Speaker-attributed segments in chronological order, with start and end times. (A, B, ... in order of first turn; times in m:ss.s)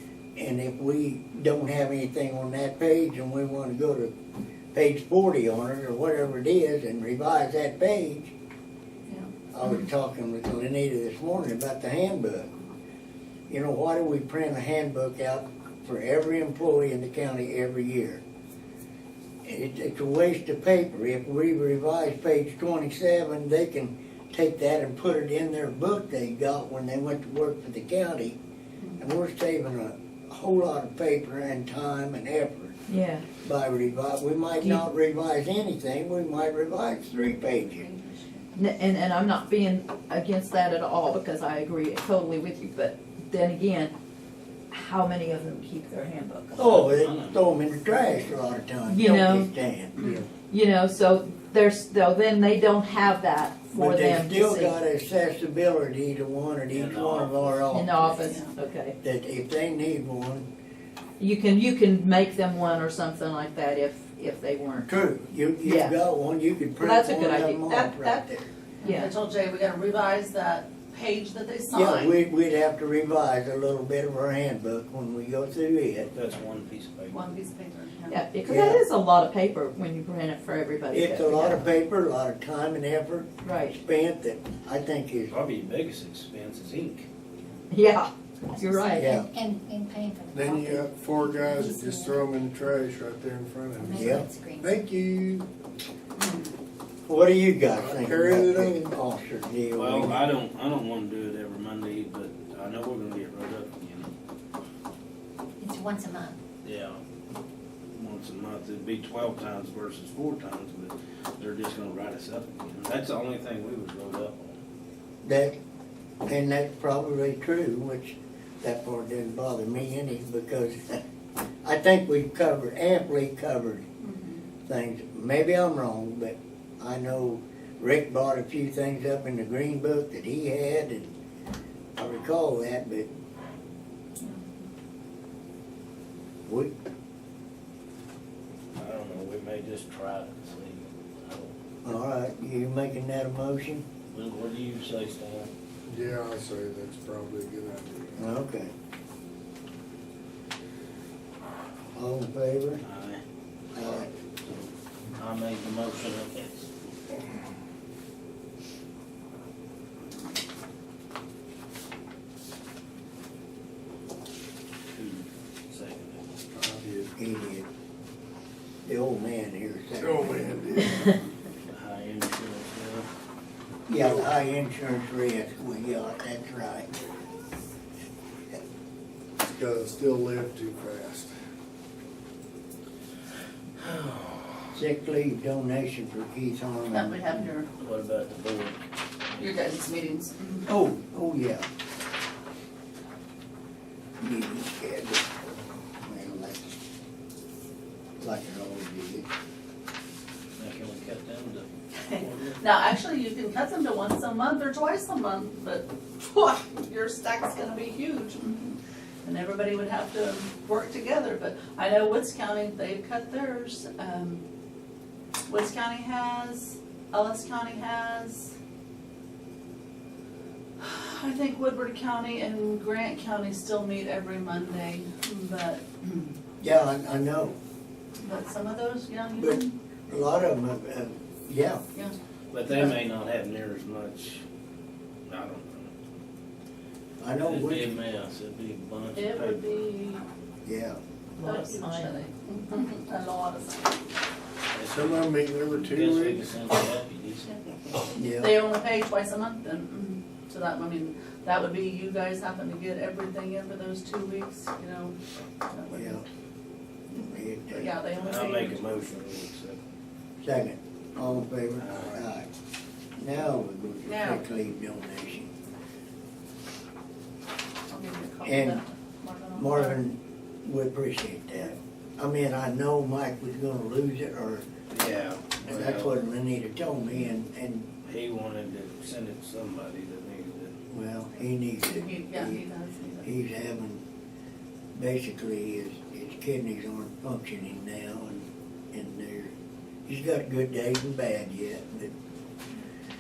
0:00.4-0:04.1 A
0:04.7-0:08.3 A
0:09.5-0:12.5 A
0:13.5-0:18.2 A
0:19.4-0:28.4 A
0:29.0-0:32.8 A
0:32.9-0:33.3 B
0:33.4-0:37.8 A
0:37.8-0:38.5 C
0:38.6-0:43.9 B
0:44.7-0:46.6 B
0:46.6-0:47.7 D
0:46.6-0:50.3 A
0:48.9-0:49.5 B
0:50.5-0:54.8 B
0:53.8-0:58.3 A
0:56.7-0:57.5 D
0:57.7-0:59.0 B
0:58.2-0:58.5 C
0:59.0-1:00.5 A
1:01.2-1:04.9 B
1:04.9-1:08.4 A
1:05.6-1:06.0 B
1:06.8-1:09.1 B
1:08.8-1:12.1 C
1:11.7-1:16.1 A
1:16.1-1:17.2 D
1:17.1-1:18.2 C
1:18.1-1:21.7 B
1:18.5-1:18.8 A
1:20.9-1:25.3 A
1:23.4-1:23.8 B
1:25.3-1:27.1 D
1:27.7-1:29.2 B
1:28.6-1:30.7 E
1:29.0-1:29.3 A
1:30.3-1:35.5 F
1:31.4-1:32.1 E
1:33.8-1:34.6 E
1:34.0-1:34.3 A
1:36.2-1:36.5 C
1:37.1-1:40.2 A
1:37.7-1:39.0 F
1:39.8-1:44.1 D
1:45.6-1:46.4 E
1:46.6-1:47.0 D
1:48.0-1:54.6 D
1:55.2-1:55.6 A
1:56.2-2:01.0 A
2:01.6-2:03.9 A
2:04.0-2:04.4 C
2:04.7-2:11.1 A
2:12.0-2:13.1 A
2:16.5-2:16.7 A
2:18.8-2:21.5 D
2:21.8-2:23.9 A
2:24.1-2:25.5 D
2:25.9-2:28.3 F
2:28.2-2:28.7 A
2:32.0-2:32.8 A
2:32.8-2:33.2 D
2:33.7-2:34.1 A
2:35.2-2:36.7 D
2:44.9-2:46.3 D
2:46.5-2:47.1 F
2:47.2-2:47.7 A
2:48.9-2:50.6 A
2:49.9-2:51.2 F
2:51.7-2:53.1 D
2:53.9-2:57.0 A
2:59.4-3:01.3 F
3:03.8-3:04.6 D
3:04.7-3:07.5 A
3:06.9-3:07.7 C
3:07.8-3:09.5 D
3:09.4-3:10.7 C
3:10.7-3:11.6 A
3:14.2-3:15.5 A
3:16.0-3:16.8 A
3:18.2-3:19.3 A
3:20.6-3:22.6 D
3:22.1-3:34.4 C
3:35.5-3:38.5 C
3:40.8-3:46.4 C
3:46.6-3:47.6 A
3:48.2-3:49.7 C
3:49.4-3:51.8 A
3:52.5-3:54.4 D
3:52.7-3:53.0 C
3:55.3-3:55.9 D
3:57.2-3:57.9 A
3:57.4-3:59.7 D
3:59.2-4:00.2 C
4:00.6-4:01.0 A
4:01.4-4:02.3 B
4:01.4-4:04.1 C
4:04.7-4:07.5 D
4:04.9-4:06.5 F
4:08.2-4:08.5 A
4:08.2-4:15.2 C
4:15.7-4:16.2 C
4:15.9-4:16.2 A
4:17.1-4:18.0 A
4:17.7-4:18.8 C
4:18.2-4:19.8 D
4:20.4-4:22.5 A
4:21.8-4:22.2 D
4:23.2-4:25.5 A
4:24.1-4:24.4 C
4:27.9-4:30.0 C
4:28.4-4:28.8 A
4:29.6-4:34.6 A
4:34.9-4:36.2 D
4:35.6-4:37.9 A
4:38.0-4:40.8 D
4:40.9-4:42.6 A
4:41.8-4:43.3 C
4:43.2-4:44.0 A
4:45.0-4:49.5 A
4:50.1-4:52.1 A